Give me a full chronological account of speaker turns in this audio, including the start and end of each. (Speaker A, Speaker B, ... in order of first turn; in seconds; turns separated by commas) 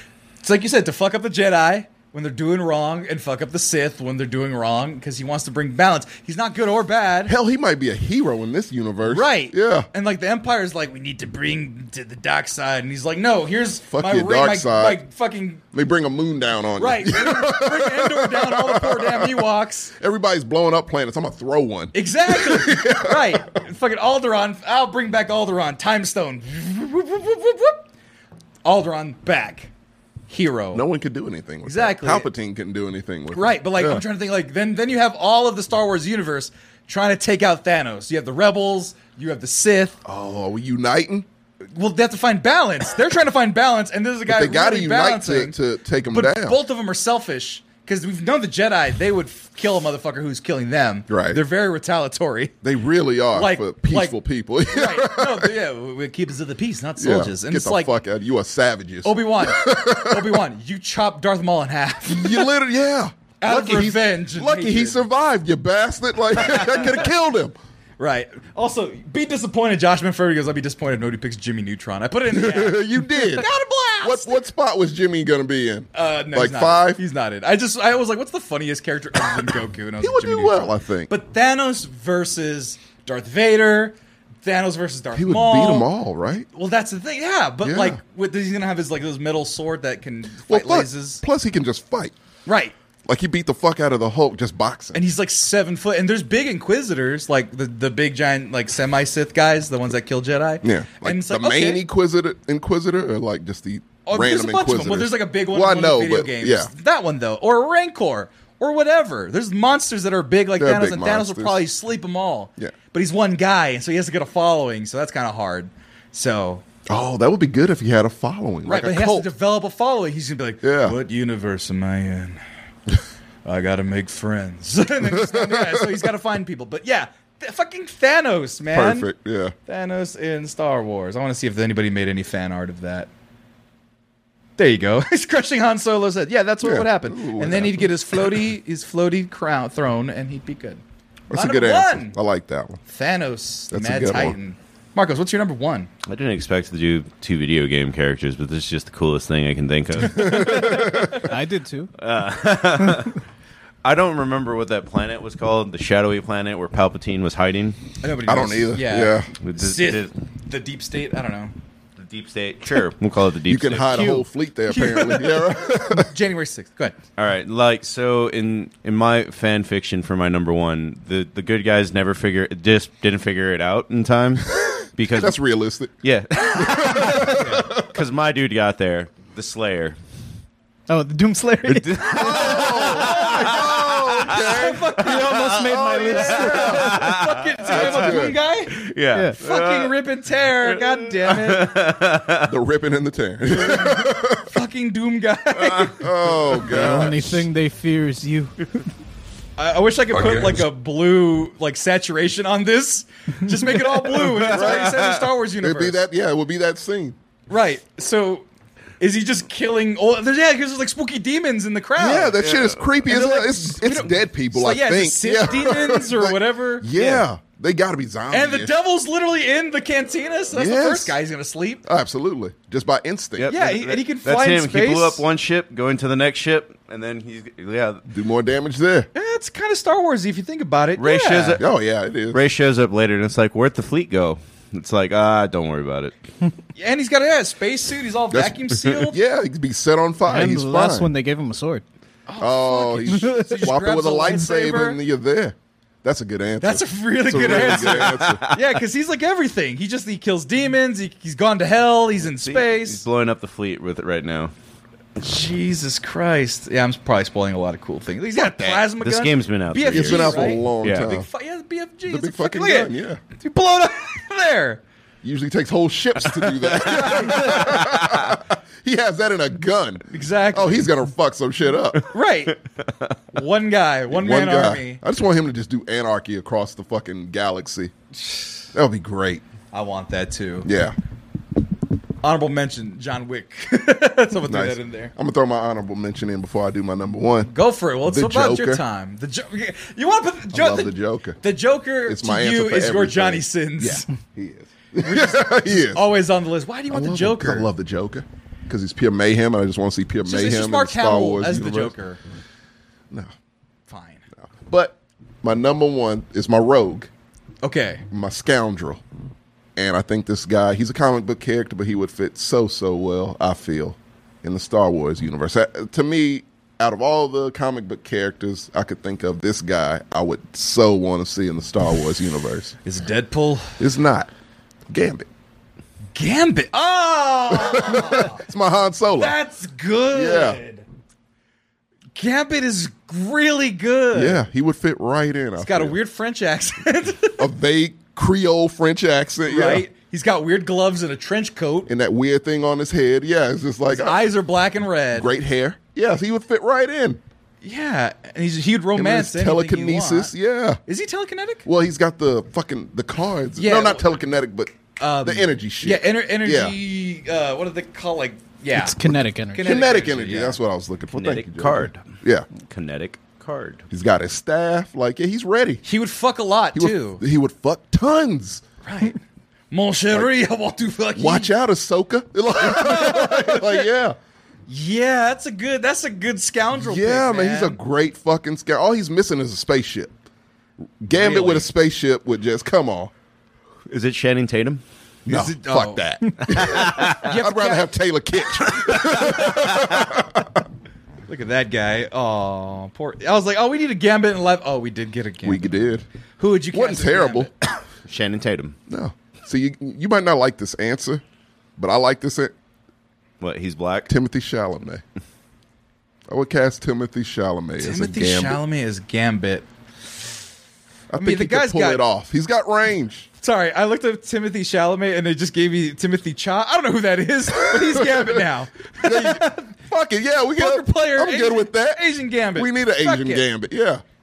Speaker A: 0.4-7.3, Speaker B: 7.2-9.9, Speaker A: 9.0-15.6, Speaker B: 13.9-15.0, Speaker B: 15.7-19.5, Speaker A: 16.8-19.9, Speaker B: 20.0-23.4, Speaker A: 21.9-27.8, Speaker A: 28.6-29.7, Speaker A: 30.3-30.8, Speaker B: 30.7-34.0, Speaker A: 31.6-32.3, Speaker A: 33.3-40.0, Speaker B: 40.0-41.2, Speaker A: 41.7-45.5, Speaker B: 44.3-46.6, Speaker A: 46.1-52.5, Speaker B: 51.1-51.4, Speaker B: 52.6-55.5, Speaker A: 53.3-54.2, Speaker A: 54.7-57.9, Speaker B: 57.0-60.4, Speaker A: 59.0-62.5, Speaker B: 62.0-67.5, Speaker A: 63.4-65.0, Speaker A: 66.4-67.1, Speaker A: 68.0-74.4, Speaker B: 72.3-73.5, Speaker B: 74.0-77.0, Speaker A: 75.9-85.9, Speaker B: 80.0-81.1, Speaker B: 85.1-86.5, Speaker A: 86.5-91.2, Speaker B: 87.6-88.0, Speaker B: 90.5-92.1, Speaker A: 92.5-92.7, Speaker B: 93.0-95.0, Speaker A: 94.9-101.8, Speaker B: 100.6-106.7, Speaker A: 104.0-116.6, Speaker B: 110.6-111.6, Speaker B: 116.9-119.3, Speaker A: 118.7-122.4, Speaker B: 120.6-121.0, Speaker A: 123.4-129.1, Speaker B: 125.0-126.1, Speaker B: 128.7-129.5, Speaker A: 129.7-133.1, Speaker A: 134.6-140.8, Speaker B: 136.6-138.4, Speaker B: 141.3-142.8, Speaker A: 141.3-142.2, Speaker A: 142.9-145.9, Speaker B: 143.7-144.3, Speaker C: 146.1-150.7, Speaker B: 150.0-151.2, Speaker D: 150.7-151.9, Speaker C: 152.0-153.2, Speaker C: 153.8-157.8, Speaker A: 158.0-161.5, Speaker B: 158.2-159.3, Speaker C: 159.4-160.1, Speaker C: 162.0-164.2, Speaker B: 163.5-166.1, Speaker D: 163.9-164.2, Speaker A: 164.7-166.9, Speaker C: 167.2-175.3, Speaker B: 174.5-175.9, Speaker C: 176.0-180.0, Speaker B: 176.5-177.8, Speaker A: 177.3-177.7, Speaker D: 180.9-183.3, Speaker C: 181.6-184.3, Speaker B: 182.1-186.9, Speaker A: 182.8-188.8, Speaker D: 185.0-187.1, Speaker C: 186.2-187.9, Speaker B: 187.7-188.4, Speaker C: 188.7-189.9, Speaker A: 189.4-191.7, Speaker C: 190.6-192.5, Speaker B: 192.4-194.5, Speaker A: 193.6-196.0, Speaker C: 195.6-195.9, Speaker B: 196.0-197.4, Speaker D: 196.7-198.6, Speaker A: 199.6-206.0, Speaker C: 204.2-205.2, Speaker B: 204.5-205.1, Speaker B: 205.6-207.2, Speaker A: 207.5-208.4, Speaker A: 209.0-212.4, Speaker B: 212.0-218.8, Speaker C: 212.4-212.9, Speaker A: 213.0-216.9, Speaker C: 216.9-217.2, Speaker A: 218.3-221.8, Speaker B: 220.5-221.2, Speaker B: 221.8-223.5, Speaker C: 223.4-228.0, Speaker A: 223.5-225.2, Speaker B: 228.1-229.1, Speaker A: 229.1-231.6, Speaker C: 231.0-231.6, Speaker B: 231.6-232.4, Speaker C: 232.3-236.1, Speaker A: 236.8-239.2, Speaker B: 238.3-241.1, Speaker D: 240.3-241.8, Speaker A: 242.3-245.0, Speaker B: 242.4-248.4, Speaker D: 243.1-243.7, Speaker A: 246.6-253.0, Speaker C: 247.4-248.6, Speaker C: 252.2-254.5, Speaker A: 255.2-264.8, Speaker B: 258.4-258.8, Speaker C: 259.0-261.1, Speaker B: 259.9-261.3, Speaker B: 262.1-263.2, Speaker B: 265.2-272.0, Speaker A: 266.8-267.7, Speaker C: 266.9-268.2, Speaker A: 270.1-270.9, Speaker A: 272.1-272.6, Speaker A: 273.3-275.0, Speaker B: 274.1-277.9, Speaker B: 278.7-279.4, Speaker A: 279.7-280.7, Speaker B: 280.6-280.9, Speaker A: 282.2-285.1, Speaker B: 284.4-287.5, Speaker A: 287.5-294.1, Speaker B: 288.0-288.8, Speaker B: 290.5-291.4, Speaker B: 292.1-296.1, Speaker A: 295.0-297.7, Speaker B: 296.9-301.9, Speaker A: 300.2-302.2, Speaker A: 303.9-304.2, Speaker B: 304.4-307.1, Speaker A: 307.6-308.0, Speaker B: 308.1-309.0, Speaker B: 309.8-322.7, Speaker A: 322.8-323.8, Speaker B: 323.8-324.3, Speaker B: 324.9-325.3, Speaker A: 326.1-328.4, Speaker B: 327.5-329.4, Speaker A: 329.1-330.8, Speaker B: 330.1-330.6, Speaker A: 332.1-334.4, Speaker B: 334.1-336.0, Speaker A: 335.6-337.5, Speaker B: 337.4-339.8, Speaker A: 339.4-341.9, Speaker B: 341.9-344.2, Speaker A: 343.9-345.3, Speaker B: 345.1-347.2, Speaker A: 347.6-350.3, Speaker B: 348.9-350.8, Speaker A: 350.9-351.6, Speaker B: 351.6-356.8, Speaker A: 353.6-354.1, Speaker A: 355.0-360.6, Speaker D: 358.7-359.8, Speaker B: 359.6-362.5, Speaker C: 361.1-362.1, Speaker C: 362.6-363.8, Speaker B: 363.9-365.8, Speaker A: 365.8-367.2, Speaker B: 366.7-368.6, Speaker A: 368.8-369.2, Speaker A: 369.7-371.5, Speaker B: 371.1-374.2, Speaker A: 372.6-373.9, Speaker A: 374.7-377.8, Speaker B: 376.8-380.1, Speaker B: 381.0-383.1, Speaker A: 381.1-381.7, Speaker C: 383.9-384.8, Speaker A: 385.2-387.9, Speaker B: 385.2-390.6, Speaker A: 391.3-395.8, Speaker B: 395.4-396.0, Speaker A: 396.4-397.5, Speaker B: 396.7-397.5, Speaker C: 398.1-398.8, Speaker B: 398.9-401.2, Speaker B: 401.8-402.5, Speaker C: 403.4-404.1, Speaker B: 404.1-405.0, Speaker B: 406.3-408.6, Speaker A: 407.8-409.7, Speaker B: 411.1-413.3, Speaker A: 411.1-412.0, Speaker A: 413.4-419.7, Speaker B: 417.8-418.3, Speaker B: 419.0-424.0, Speaker A: 420.6-423.4